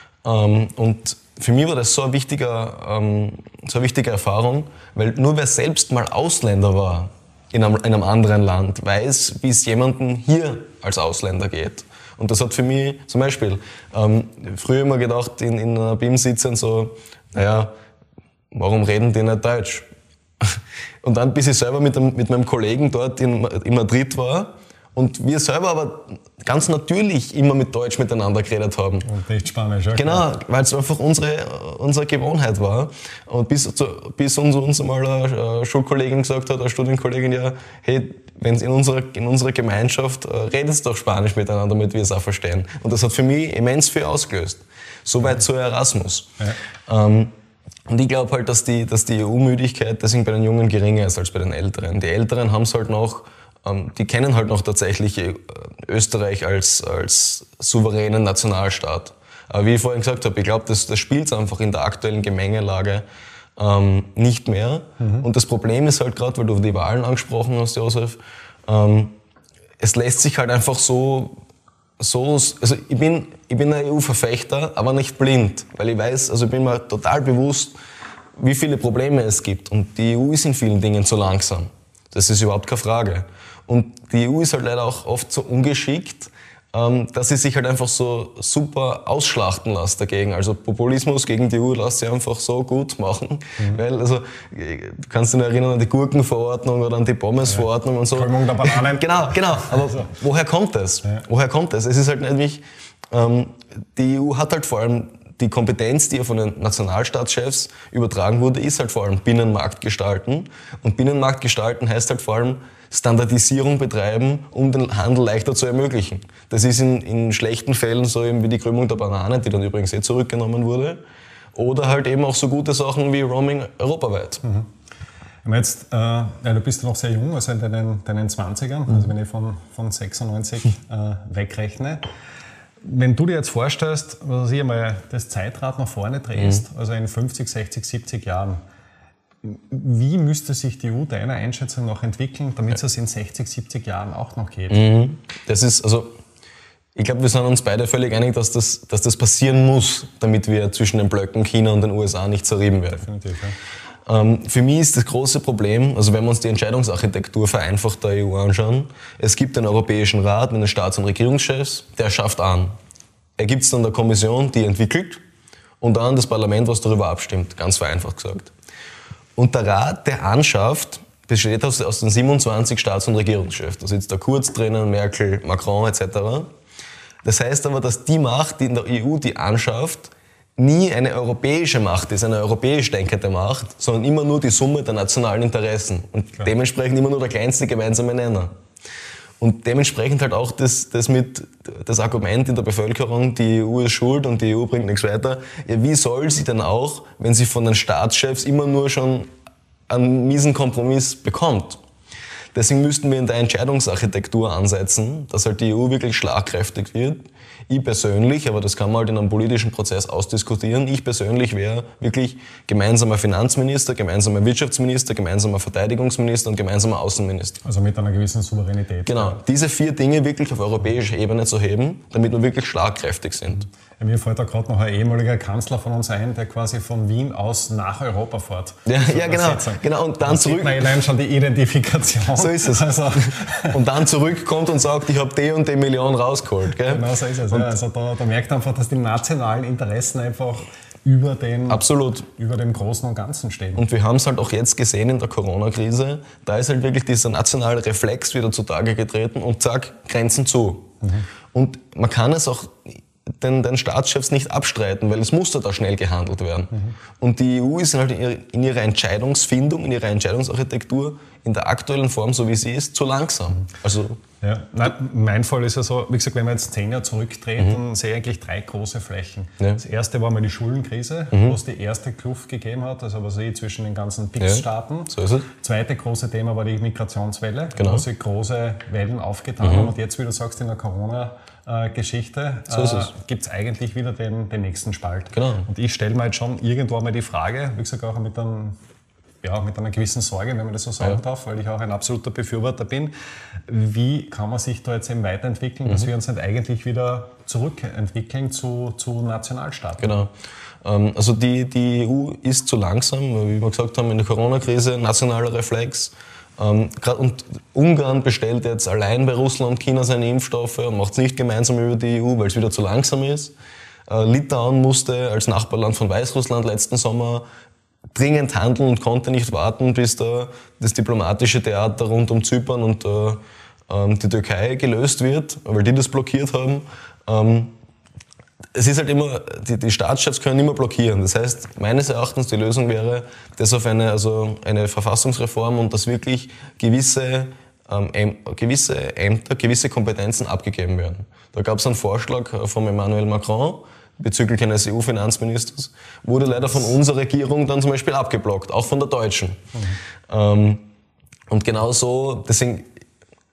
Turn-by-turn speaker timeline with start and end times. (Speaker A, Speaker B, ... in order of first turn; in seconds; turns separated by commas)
Speaker A: 0.2-17.7, Speaker A: 18.5-19.9, Speaker A: 20.4-29.1, Speaker B: 29.0-30.2, Speaker A: 29.9-46.3, Speaker A: 46.9-47.3, Speaker A: 47.9-63.0, Speaker A: 63.6-69.1, Speaker B: 65.0-65.3, Speaker A: 69.8-71.3, Speaker A: 72.0-77.7, Speaker A: 78.4-121.0, Speaker B: 97.4-100.1, Speaker A: 121.5-124.4, Speaker B: 124.4-124.7, Speaker B: 125.5-132.0, Speaker B: 132.8-138.6, Speaker B: 139.4-144.9, Speaker A: 144.7-146.2, Speaker A: 147.0-153.0, Speaker B: 153.0-153.6, Speaker A: 154.1-162.7, Speaker A: 163.4-165.2, Speaker A: 165.8-168.5, Speaker A: 169.4-176.5, Speaker A: 177.2-188.5, Speaker A: 189.4-199.3, Speaker A: 199.9-201.8, Speaker A: 202.5-217.6, Speaker B: 217.6-219.4, Speaker A: 219.1-223.7, Speaker B: 224.0-233.8, Speaker A: 228.9-230.9, Speaker A: 232.3-237.7, Speaker B: 236.8-243.8, Speaker A: 241.7-242.3, Speaker A: 243.8-250.9, Speaker A: 251.5-264.2, Speaker B: 264.4-288.8, Speaker A: 271.3-271.6, Speaker A: 274.4-275.4, Speaker A: 277.8-278.0, Speaker A: 279.6-279.9, Speaker A: 282.7-283.1, Speaker A: 285.3-285.7, Speaker B: 289.4-293.1, Speaker B: 293.7-300.2, Speaker A: 300.0-300.3, Speaker A: 300.8-313.5, Speaker A: 314.1-317.4, Speaker A: 318.1-327.7, Speaker A: 328.8-349.6, Speaker B: 349.7-350.0, Speaker A: 350.3-350.8, Speaker A: 351.5-352.9